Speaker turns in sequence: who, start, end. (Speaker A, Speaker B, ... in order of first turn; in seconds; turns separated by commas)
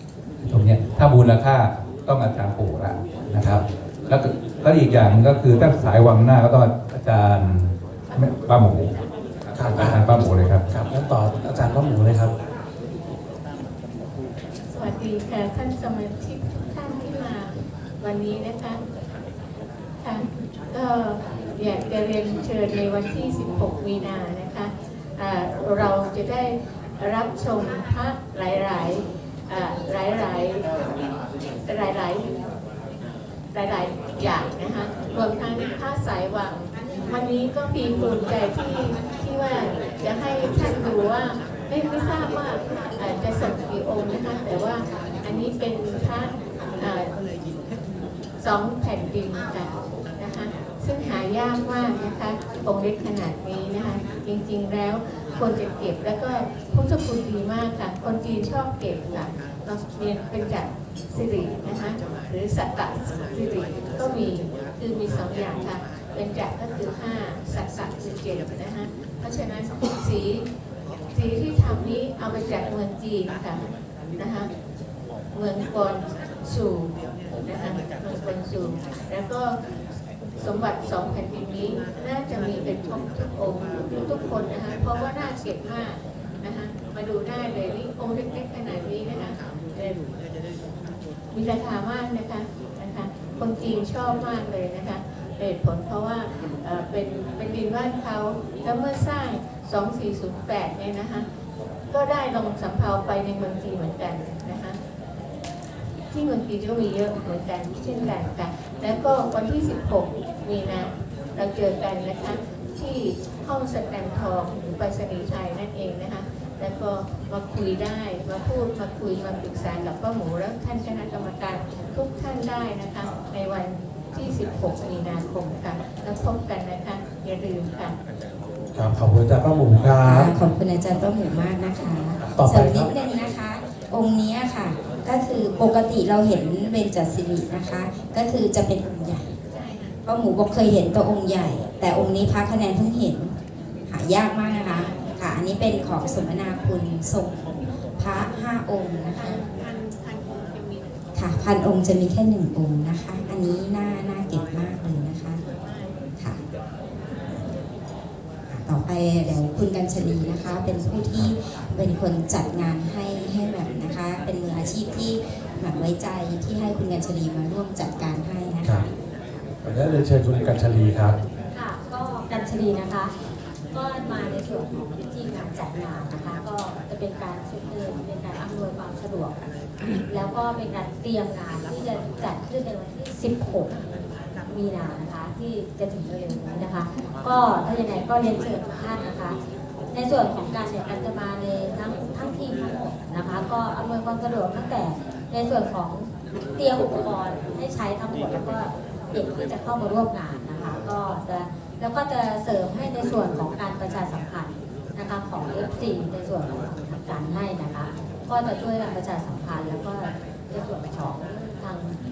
Speaker A: 0.4-8.9, Speaker B: 3.3-3.6, Speaker A: 9.5-10.7, Speaker B: 9.5-10.2, Speaker B: 10.7-12.3, Speaker C: 14.7-18.8, Speaker C: 20.0-30.7, Speaker C: 31.7-32.3, Speaker C: 33.5-47.1, Speaker C: 48.4-70.5, Speaker C: 71.1-73.6, Speaker C: 74.2-74.5, Speaker C: 75.3-79.5, Speaker C: 80.4-90.0, Speaker C: 91.3-101.3, Speaker C: 101.9-104.8, Speaker C: 106.1-128.0, Speaker B: 128.7-130.3, Speaker D: 130.0-139.3, Speaker B: 132.2-132.9, Speaker D: 140.0-143.3, Speaker D: 143.9-149.4, Speaker D: 151.2-155.4, Speaker D: 158.5-168.9, Speaker B: 169.6-171.2, Speaker E: 171.5-173.1, Speaker E: 173.7-179.4, Speaker E: 180.1-183.7, Speaker E: 184.5-189.4, Speaker E: 189.9-212.0